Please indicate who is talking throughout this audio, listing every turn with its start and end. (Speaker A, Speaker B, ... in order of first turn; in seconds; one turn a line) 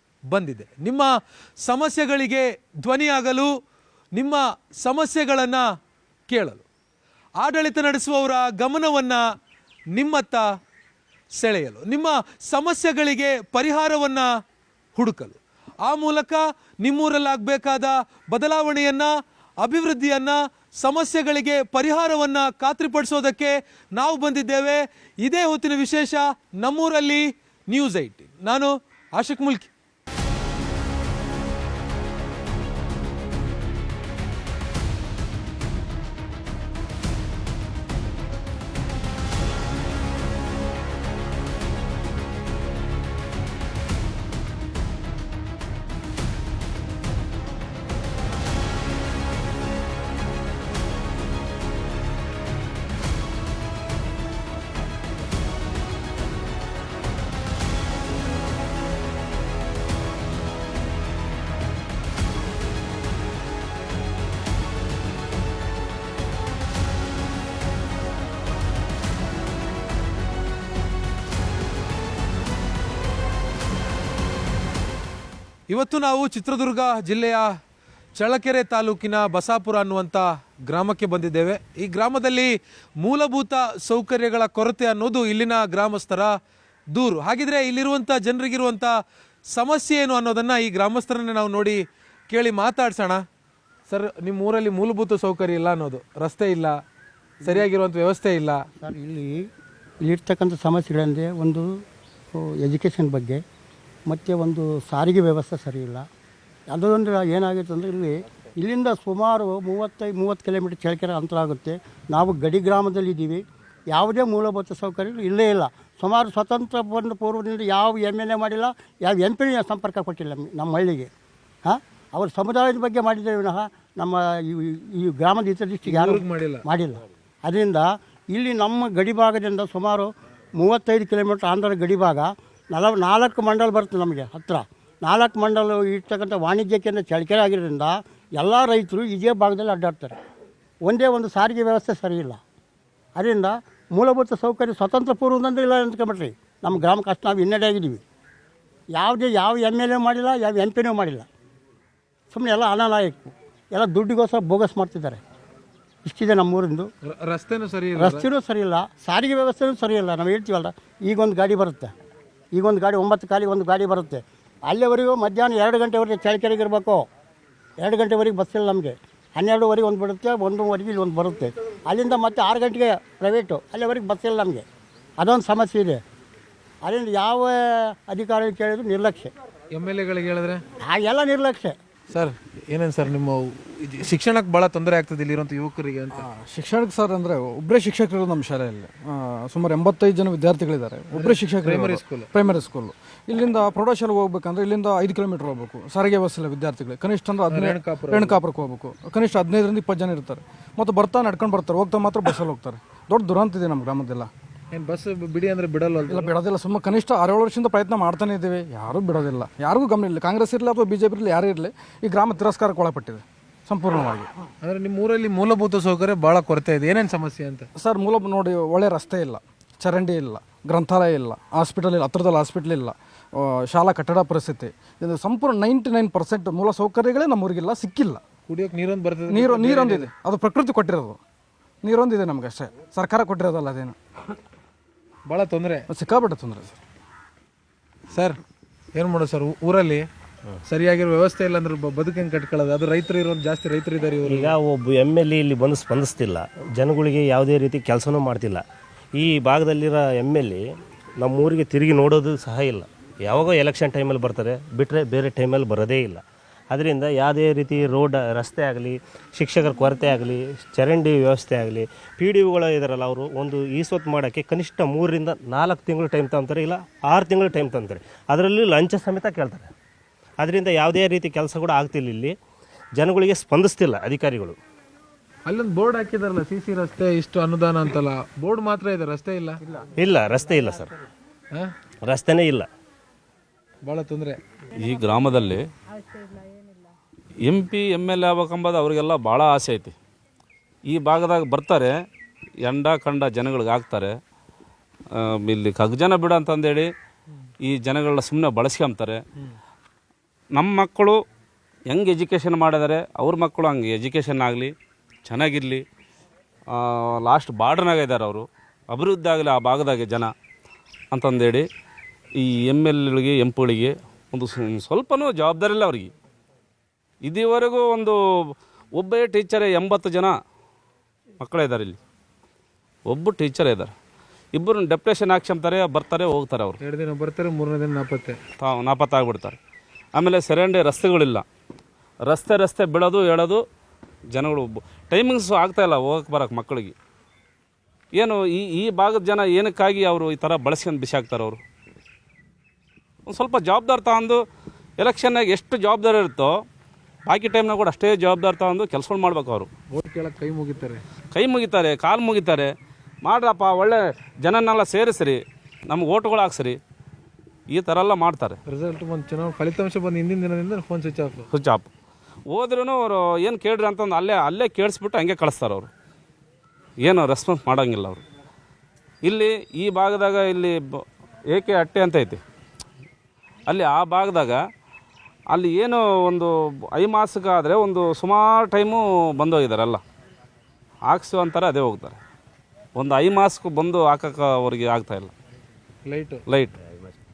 Speaker A: 0.3-3.5
Speaker A: 4.2-5.7
Speaker A: 6.3-6.6
Speaker A: 7.4-9.2
Speaker A: 9.9-10.4
Speaker A: 11.4-14.3
Speaker A: 15.0-19.1
Speaker A: 19.6-29.7
Speaker A: 75.7-77.5
Speaker A: 78.2-86.3
Speaker A: 86.9-89.0
Speaker A: 89.5-93.2
Speaker A: 93.9-96.8
Speaker A: 97.4-98.6
Speaker B: 98.8-99.5
Speaker B: 100.0-101.8
Speaker B: 102.3-103.4
Speaker B: 104.1-106.0
Speaker B: 106.7-121.1
Speaker B: 121.7-140.2
Speaker A: 125.8-126.6
Speaker B: 140.8-142.4
Speaker B: 143.2-148.0
Speaker B: 149.0-151.3
Speaker B: 152.3-155.2
Speaker B: 156.1-156.9
Speaker A: 157.1-158.3
Speaker B: 157.9-161.9
Speaker B: 162.5-167.0
Speaker B: 167.8-174.7
Speaker B: 175.2-176.0
Speaker B: 176.8-179.3
Speaker A: 179.7-180.6
Speaker B: 180.8-181.8
Speaker A: 182.1-186.3
Speaker C: 186.2-204.3
Speaker A: 191.1-192.3
Speaker A: 197.5-198.4
Speaker A: 204.7-206.3
Speaker C: 206.1-214.3
Speaker A: 214.6-217.7
Speaker C: 217.8-228.2
Speaker A: 228.5-230.1
Speaker C: 229.3-231.2
Speaker C: 231.8-234.0
Speaker A: 235.3-235.8
Speaker C: 235.9-236.8
Speaker A: 239.0-240.1
Speaker A: 240.7-244.6
Speaker D: 244.3-248.6
Speaker D: 249.2-250.6
Speaker D: 251.2-269.7
Speaker D: 270.4-272.4
Speaker D: 273.0-274.6
Speaker A: 275.5-279.6
Speaker D: 280.0-280.9
Speaker D: 282.0-282.7
Speaker A: 283.9-284.4
Speaker E: 284.8-285.6
Speaker E: 287.4-289.9
Speaker E: 290.9-291.9
Speaker E: 292.6-294.1
Speaker E: 295.1-296.9
Speaker E: 297.6-299.2
Speaker E: 300.5-301.2
Speaker E: 301.9-304.7
Speaker E: 305.3-305.8
Speaker E: 306.7-310.3
Speaker E: 311.1-311.6
Speaker E: 312.4-316.1
Speaker E: 317.2-318.2
Speaker E: 319.0-320.3
Speaker E: 321.4-322.0
Speaker E: 323.1-323.9
Speaker E: 324.6-326.8
Speaker A: 326.8-328.4
Speaker E: 328.6-329.6
Speaker E: 330.1-331.4
Speaker E: 332.3-333.6
Speaker E: 334.3-336.9
Speaker E: 338.1-341.6
Speaker E: 343.3-344.4
Speaker E: 345.0-346.5
Speaker E: 347.3-349.7
Speaker A: 349.9-351.0
Speaker E: 351.3-352.7
Speaker E: 353.2-355.4
Speaker E: 355.9-356.8
Speaker E: 357.7-358.6
Speaker A: 358.7-361.5
Speaker E: 361.5-361.9
Speaker E: 362.5-365.9
Speaker E: 367.0-368.2
Speaker E: 369.2-372.4
Speaker E: 373.7-374.6
Speaker E: 375.5-380.0
Speaker E: 381.1-382.2
Speaker E: 383.0-385.3
Speaker A: 386.1-386.4
Speaker E: 386.5-386.8